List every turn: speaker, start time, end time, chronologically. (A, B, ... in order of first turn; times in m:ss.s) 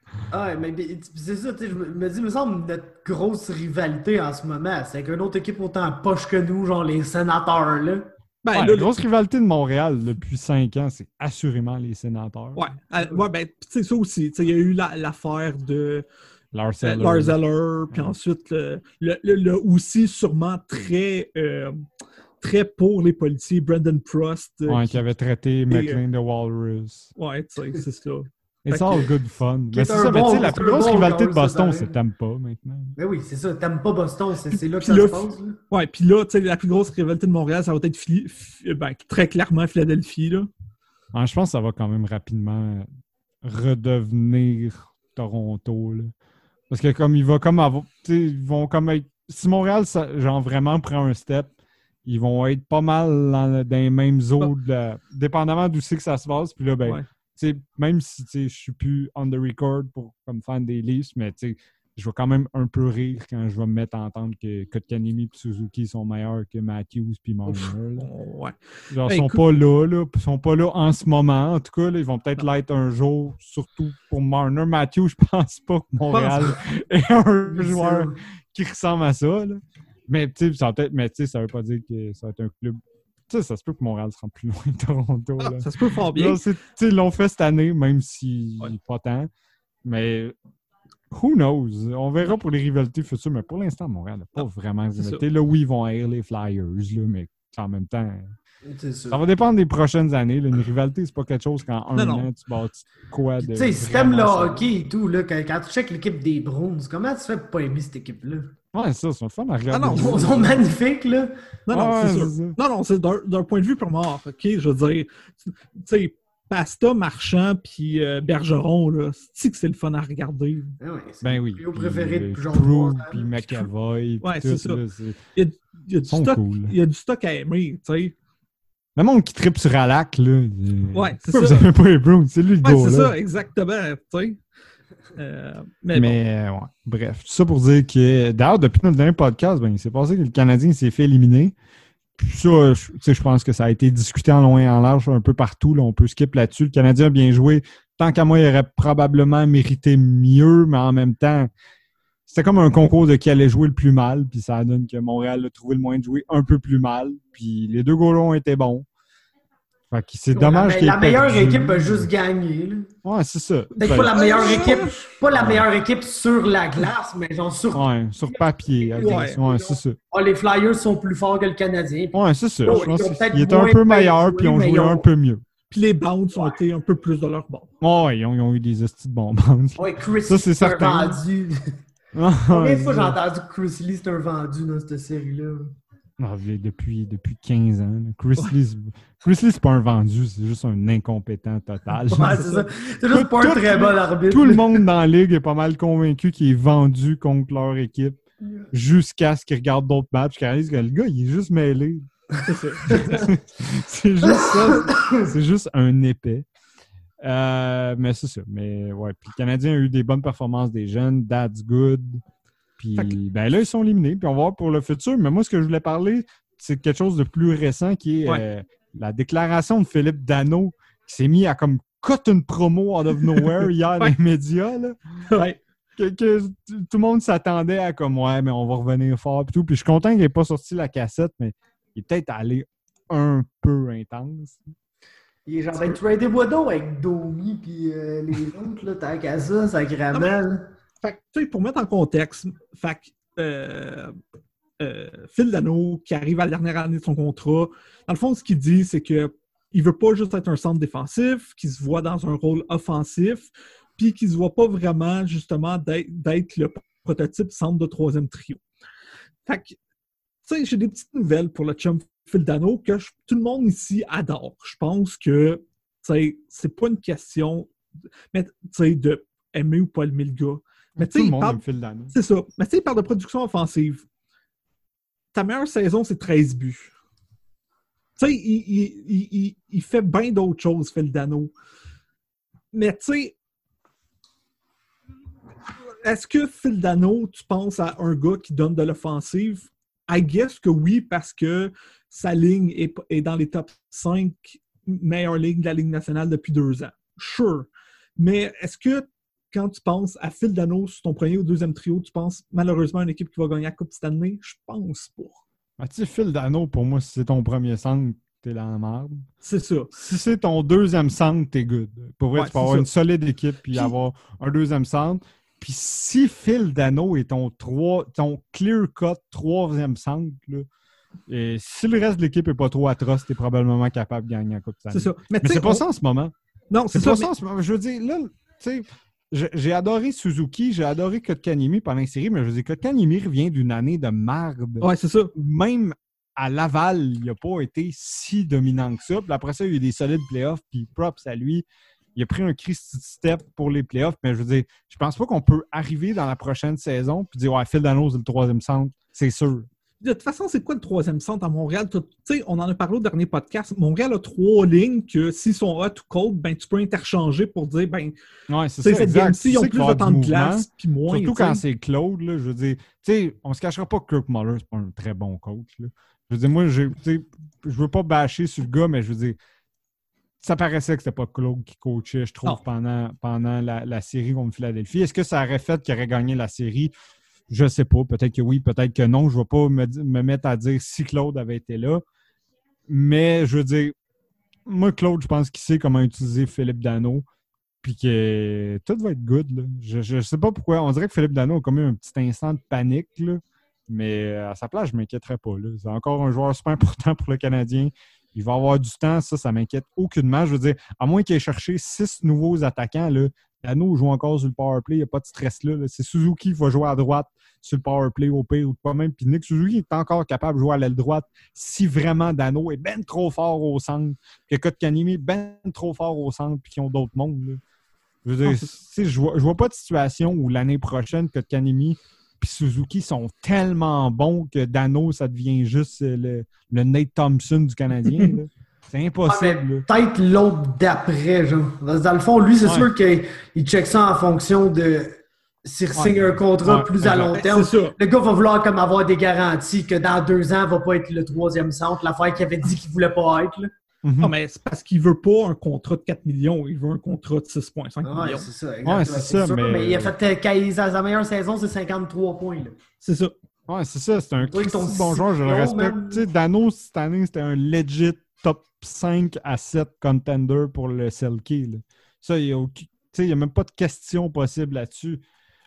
0:00.3-0:08.1 A
0:08.4-0:08.9 B
0:08.5-0:12.6 C
0:12.6-0:16.1 B
0:16.5-0:17.4 C
0:16.8-0:21.9 B
0:22.4-0:25.0 B
0:24.7-0:27.1 C
0:25.7-0:26.0 B
0:27.2-0:29.1 B
0:28.6-0:33.0 C
0:29.7-0:31.9 A
0:33.0-0:35.6 A
0:34.5-0:40.5 B
0:41.1-0:42.9 C
0:43.4-0:46.1 C
0:46.7-0:51.5 C
0:52.0-1:08.1 C
1:07.5-1:09.4 B
1:08.9-1:29.3 C
1:16.1-1:16.6 B
1:17.5-1:18.2 A
1:25.4-1:26.4 B
1:29.9-1:30.4 C
1:31.1-1:38.4 C
1:35.0-1:35.2 B
1:38.6-1:39.2 A
1:39.1-1:44.7 C
1:42.0-1:42.3 B
1:43.4-1:48.5 A
1:48.7-1:50.6 C
1:49.7-1:50.3 B
1:49.9-1:51.4 A
1:51.7-2:00.8 B
1:51.7-1:52.6 C
2:00.8-2:03.7 A
2:01.2-2:05.2 C
2:04.2-2:04.8 B
2:05.4-2:08.2 B
2:06.1-2:06.7 C
2:09.0-2:13.1 C
2:10.9-2:11.7 B
2:12.6-2:14.4 B
2:15.2-2:16.2 B
2:16.0-2:21.5 C
2:22.2-2:31.5 C
2:32.3-2:38.9 C
2:39.9-2:42.1 C
2:40.3-2:42.9 A
2:43.0-2:45.7 C
2:43.8-2:55.1 A
2:44.0-2:45.2 B
2:47.7-2:50.0 C
2:49.0-2:49.4 B
2:52.1-2:55.4 C
2:55.7-2:57.7 B
2:57.8-3:01.2 C
2:59.8-3:01.8 A
3:02.1-3:03.2 C
3:02.5-3:05.7 A
3:06.2-3:12.5 C
3:12.1-3:12.6 B
3:12.1-3:14.8 A
3:13.1-3:18.2 C
3:18.4-3:18.7 A
3:18.7-3:22.0 C
3:22.4-3:23.3 B
3:22.8-3:26.5 C
3:22.9-3:23.3 A
3:24.2-3:25.3 A
3:27.2-3:32.2 C
3:32.8-3:45.0 C
3:43.2-3:44.1 B
3:45.3-3:45.6 B
3:46.0-3:54.6 C
3:55.5-4:00.7 A
4:00.1-4:00.4 B
4:01.0-4:04.1 B
4:04.8-4:18.6 B
4:19.5-4:19.8 B
4:20.5-4:27.7 B
4:28.3-4:31.6 B
4:31.0-4:32.2 C
4:32.1-4:34.0 B
4:35.3-4:36.9 B
4:38.2-4:41.5 B
4:42.7-4:43.4 B
4:46.0-5:05.4 B
5:05.8-5:09.3 C
5:09.4-5:09.9 B
5:10.0-5:20.7 C
5:12.4-5:12.9 B
5:21.3-5:26.3 C
5:24.9-5:25.8 B
5:26.7-5:27.3 B
5:26.9-5:49.7 C
5:34.8-5:35.3 B
5:50.0-5:58.1 B
5:58.5-6:09.4 C
5:58.8-6:01.6 B
6:10.4-6:16.9 C
6:17.5-6:22.0 C
6:22.9-6:24.0 C
6:24.7-6:27.3 C
6:27.8-6:57.6 C
6:58.2-7:09.8 C
6:58.4-6:58.7 B
7:09.3-7:23.7 A
7:12.6-7:12.9 C
7:15.9-7:17.4 C
7:17.3-7:18.0 B
7:24.0-7:24.3 C
7:24.2-7:28.5 B
7:28.0-7:32.8 A
7:28.8-7:30.1 C
7:33.0-7:33.3 B
7:33.7-7:45.2 C
7:34.4-7:36.3 A